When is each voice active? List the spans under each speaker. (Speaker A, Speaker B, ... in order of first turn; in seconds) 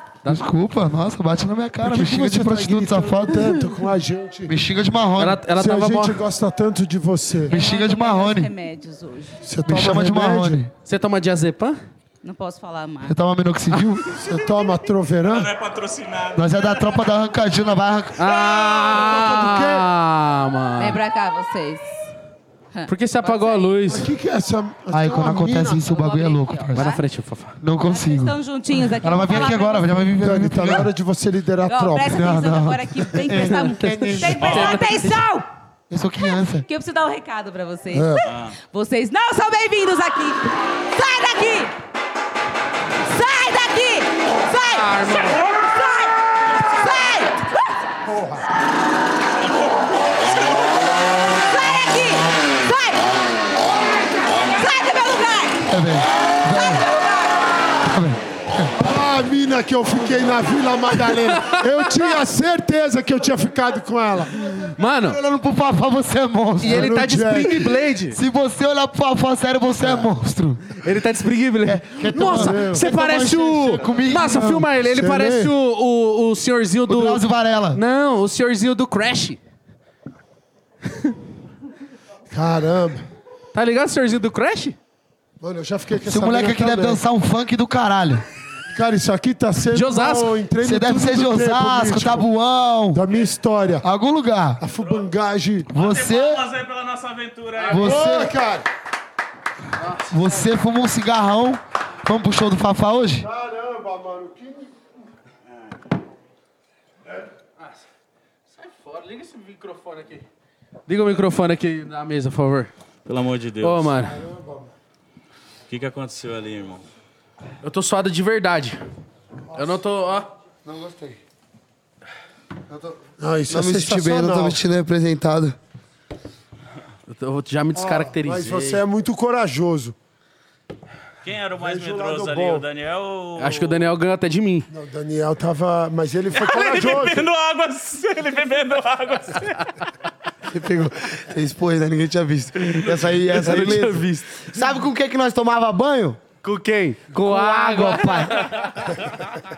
Speaker A: 0.3-3.5, 4.5-5.4, 7.5-8.5, 9.7-10.7, 13.1-14.4, 16.4-18.3, 24.9-26.9, 27.6-28.4, 28.9-30.9, 32.1-34.6, 35.9-36.7, 55.7-56.9, 57.9-58.7, 65.1-67.0, 68.1-70.8, 71.6-74.7, 76.9-77.8, 86.1-88.2, 90.6-93.0, 93.8-94.6, 95.7-96.4, 97.7-98.3, 100.1-103.2, 147.5-147.8
Speaker B: 1.8-4.6, 5.5-7.6, 9.4-10.7, 14.3-15.5, 18.9-19.9, 23.9-25.8, 30.2-32.3, 37.9-38.2, 48.0-48.5, 58.8-64.5, 66.6-67.8, 69.8-70.1, 72.1-72.9, 74.8-75.5, 82.3-83.1, 85.4-87.0, 88.7-92.3, 92.9-93.9, 94.6-95.7, 97.7-98.7, 103.2-104.7, 114.0-114.7, 119.5-119.8, 123.2-124.6, 127.8-130.0, 131.6-132.7, 134.7-137.3
Speaker C: 5.2-6.2, 10.8-11.8, 18.2-21.0, 22.9-24.1, 26.7-27.6, 33.4-35.2, 44.6-45.4, 61.1-62.0, 64.8-65.2, 66.6-68.2, 70.7-79.4, 83.5-84.8, 89.7-90.4, 99.8-100.4, 108.5-110.3, 110.9-112.7, 113.6-114.2, 117.6-118.8, 119.5-120.3, 127.1-128.8, 133.4-134.7, 143.2-144.2, 146.4-148.8
Speaker D: 7.5-9.4, 12.2-13.2, 20.8-22.0, 22.7-23.8, 25.7-27.0, 27.9-30.1, 31.7-35.5, 36.2-41.7, 43.0-47.8, 51.2-53.1, 54.5-55.7, 56.4-57.5
Speaker E: 15.3-17.0, 34.4-34.8, 38.2-38.6, 50.2-50.9, 95.7-98.0, 113.1-113.9, 115.7-116.8, 131.2-133.9, 136.3-139.7
Speaker F: 120.7-121.2, 122.7-123.0, 123.5-125.6, 140.5-146.2, 147.3-148.4